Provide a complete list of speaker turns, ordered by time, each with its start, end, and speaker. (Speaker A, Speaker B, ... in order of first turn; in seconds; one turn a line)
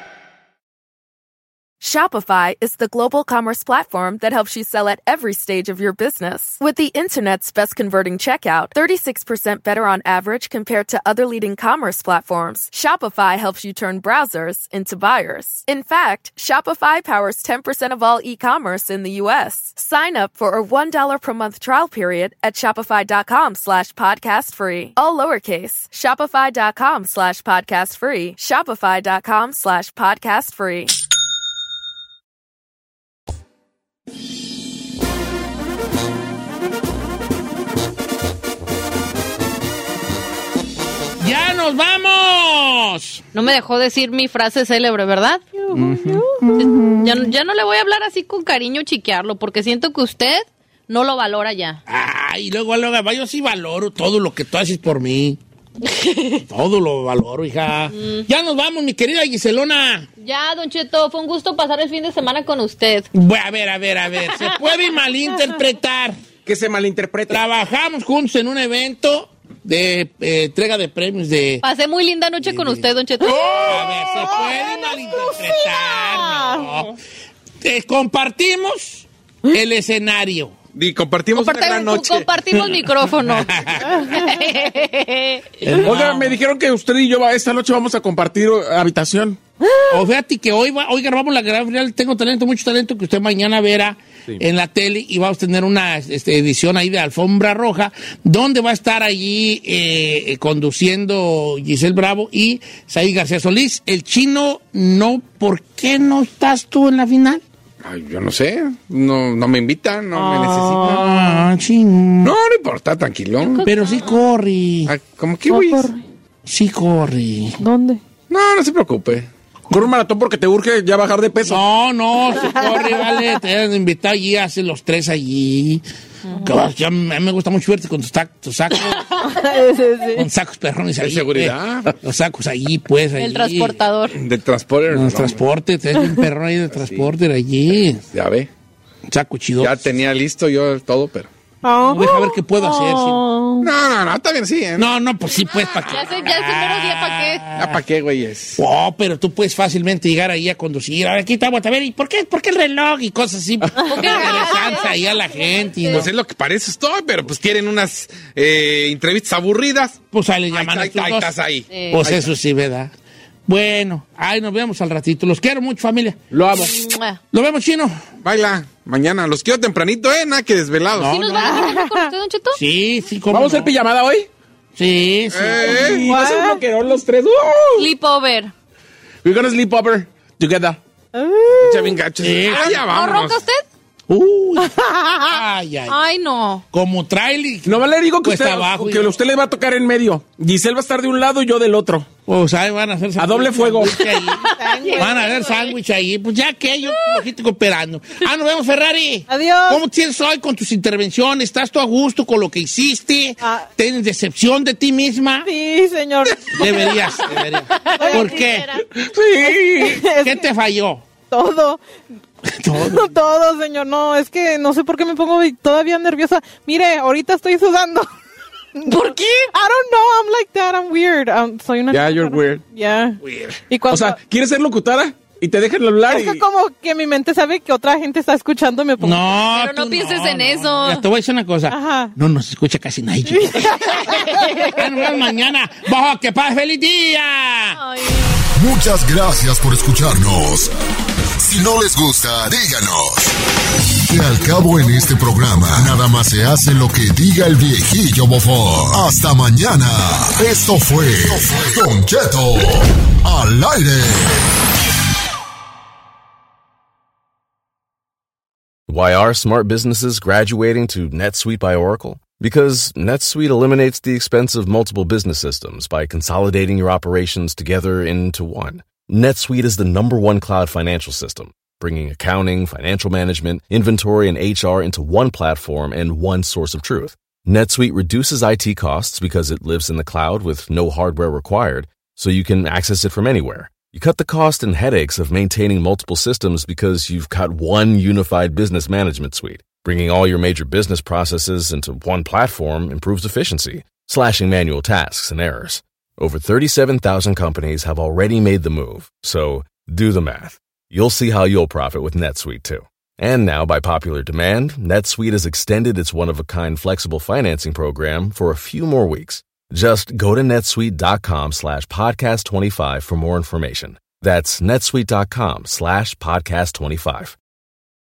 Speaker A: 1.8-30.9
Speaker B: 41.2-43.2
Speaker C: 43.3-45.4
Speaker D: 45.6-46.9
Speaker B: 45.7-46.7
Speaker C: 46.6-51.8
Speaker B: 51.9-55.4
Speaker C: 55.8-56.4
Speaker B: 56.5-60.1
Speaker C: 57.9-58.2
Speaker C: 60.2-63.1
Speaker B: 63.1-66.2
Speaker E: 66.4-67.4
Speaker B: 67.3-71.6
Speaker C: 71.6-73.7
Speaker B: 72.4-77.0
Speaker D: 73.3-76.9
Speaker B: 77.6-80.5
Speaker F: 80.7-82.3
Speaker C: 81.3-85.5
Speaker B: 83.1-84.0
Speaker B: 85.6-86.4
Speaker E: 85.8-89.4
Speaker B: 89.9-107.4
Speaker F: 107.8-111.4
Speaker D: 110.1-111.0
Speaker B: 110.7-112.3
Speaker F: 112.2-113.7
Speaker B: 113.6-114.9
Speaker F: 114.8-115.9
Speaker D: 115.5-116.0
Speaker B: 116.5-117.6
Speaker D: 117.6-118.0
Speaker F: 118.3-119.3
Speaker E: 119.7-121.6
Speaker B: 121.4-125.8
Speaker D: 122.5-123.1
Speaker B: 126.4-129.1
Speaker D: 129.2-130.2
Speaker B: 130.1-133.8
Speaker F: 131.0-131.9
Speaker C: 133.2-134.2
Speaker F: 134.1-135.4
Speaker B: 134.9-138.0
Speaker F: 136.7-137.1
Speaker F: 138.1-138.5
Speaker B: 139.1-139.8
Speaker F: 139.6-141.3
Speaker D: 141.6-143.7
Speaker B: 141.8-143.3
Speaker F: 143.6-144.9
Speaker B: 144.8-147.8
Speaker C: 145.9-147.4
Speaker F: 147.6-148.6
Speaker B: 148.6-156.1
Speaker C: 153.8-156.1
Speaker D: 153.9-154.5
Speaker F: 155.9-160.0
Speaker B: 160.1-161.3
Speaker F: 160.5-162.3
Speaker C: 161.7-162.0
Speaker B: 161.9-162.9
Speaker B: 163.5-166.2
Speaker E: 166.3-166.8
Speaker C: 166.6-167.2
Speaker B: 167.3-168.0
Speaker F: 168.2-171.2
Speaker B: 170.9-171.6
Speaker C: 171.1-172.6
Speaker D: 171.4-172.1
Speaker B: 172.5-173.7
Speaker E: 173.3-174.3
Speaker B: 174.8-176.0
Speaker F: 175.3-176.1
Speaker E: 175.7-177.9
Speaker D: 175.7-176.6
Speaker C: 177.8-178.5
Speaker E: 179.2-180.8
Speaker D: 181.1-182.1
Speaker F: 181.5-183.4
Speaker B: 182.2-182.7
Speaker C: 182.5-183.6
Speaker B: 184.1-186.0
Speaker D: 184.8-185.2
Speaker C: 185.9-186.6
Speaker B: 186.7-189.2
Speaker E: 187.6-192.1
Speaker B: 192.2-205.5
Speaker E: 193.2-194.0
Speaker C: 194.1-195.7
Speaker D: 194.5-195.3
Speaker D: 199.3-199.8
Speaker D: 203.4-203.7
Speaker D: 205.4-207.3
Speaker B: 206.4-208.7
Speaker C: 207.7-208.8
Speaker D: 207.9-208.6
Speaker E: 208.9-210.0
Speaker D: 209.4-210.5
Speaker B: 209.9-211.0
Speaker D: 211.3-211.8
Speaker B: 212.4-213.1
Speaker D: 212.8-218.1
Speaker D: 218.8-223.2
Speaker C: 218.8-219.5
Speaker F: 221.9-222.6
Speaker F: 223.2-223.6
Speaker D: 223.7-224.2
Speaker E: 223.9-226.4
Speaker D: 226.1-229.3
Speaker B: 229.0-237.8
Speaker C: 229.4-231.0
Speaker D: 231.7-232.1
Speaker D: 233.3-235.3
Speaker C: 237.8-238.4
Speaker G: 238.5-240.7
Speaker G: 241.4-243.3
Speaker G: 244.1-254.5
Speaker H: 258.9-317.3